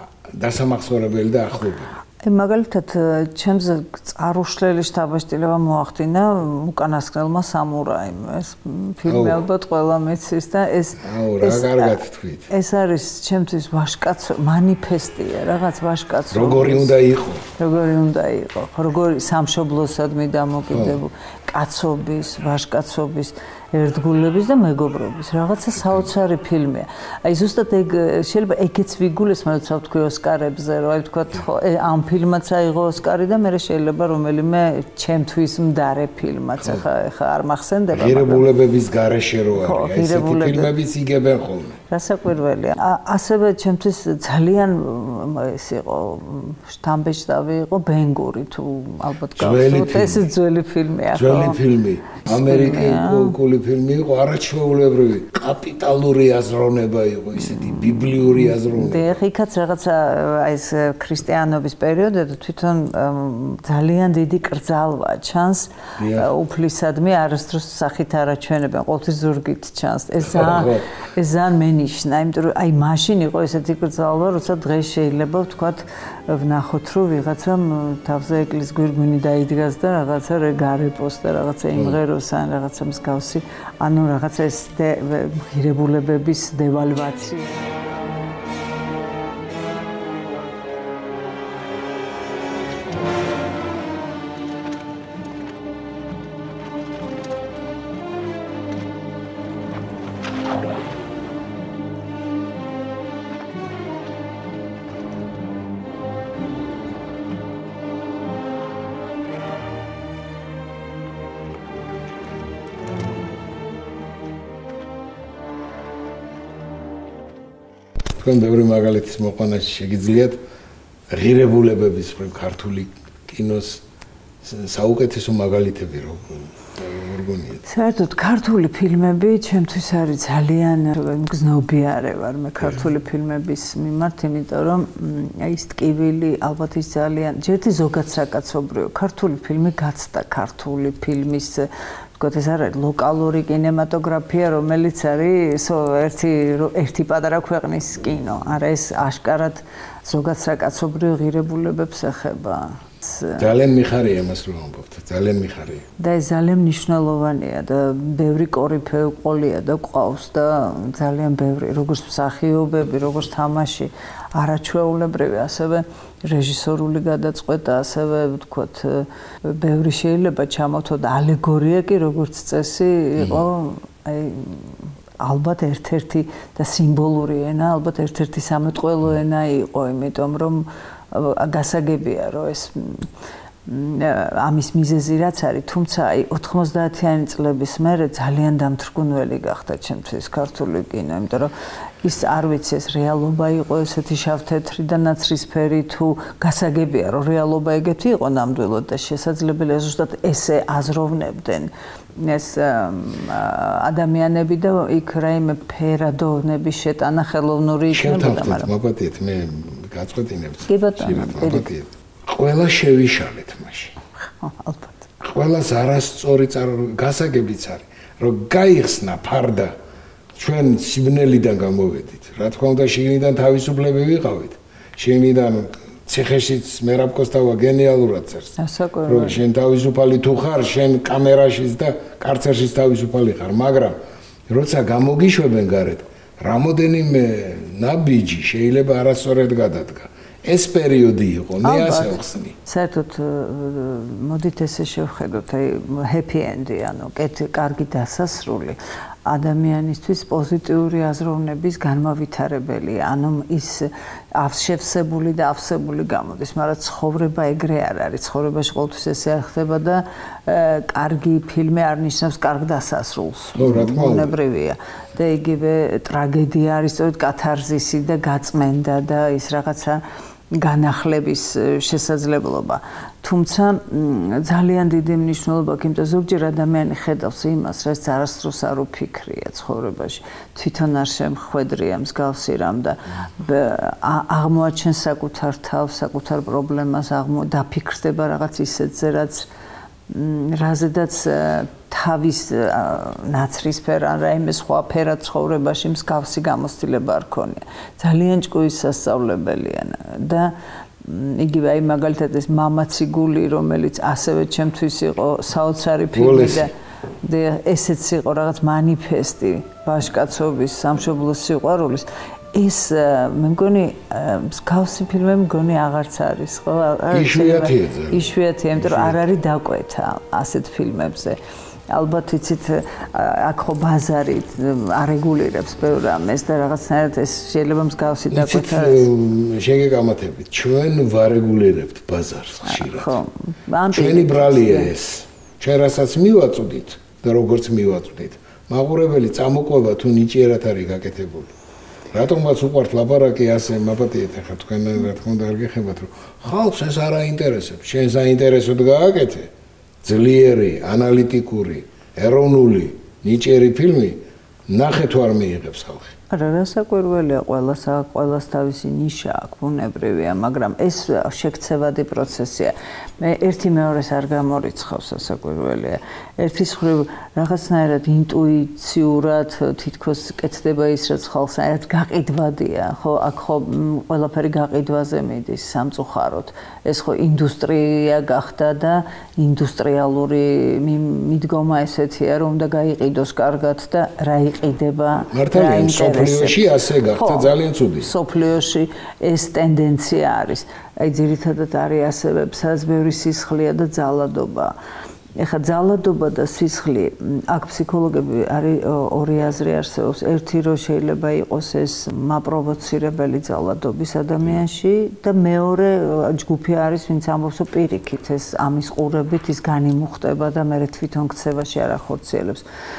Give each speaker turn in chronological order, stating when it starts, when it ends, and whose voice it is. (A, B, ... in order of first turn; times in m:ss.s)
0:00.2-0:02.0 A
0:02.2-0:12.0 B
0:09.1-0:09.4 A
0:11.0-0:12.5 A
0:12.5-0:17.0 B
0:16.3-0:17.4 A
0:17.6-0:38.5 B
0:20.7-0:21.0 A
0:25.7-0:26.0 A
0:37.9-0:41.8 A
0:39.6-0:40.7 B
0:41.9-0:51.6 B
0:49.3-0:50.2 A
0:51.1-0:59.1 A
0:52.2-0:53.3 B
0:58.1-1:27.5 B
1:06.0-1:06.3 A
1:10.2-1:10.9 A
1:58.2-2:00.4 A
2:01.1-2:03.8 A
2:04.4-2:07.6 A
2:07.6-2:33.4 B
2:33.4-2:35.9 A
2:36.0-3:03.1 B
3:03.6-3:28.7 B
3:27.9-3:33.9 A
3:30.7-3:31.7 B
3:34.4-3:35.1 B
3:35.2-3:39.7 A
3:40.3-4:02.6 A
3:48.6-3:49.4 B
4:01.6-4:30.0 B
4:23.5-4:24.4 A
4:30.5-4:49.5 B
4:50.1-5:21.4 B
5:06.1-5:06.7 A
5:17.1-5:19.2 A
5:21.9-5:29.0 B
5:28.3-5:33.2 A
5:32.6-5:34.9 B
5:33.9-5:41.6 A
5:42.1-5:49.5 A
5:50.0-5:56.1 A
5:56.3-6:34.7 B
6:25.3-6:28.1 A
6:35.4-6:52.6 B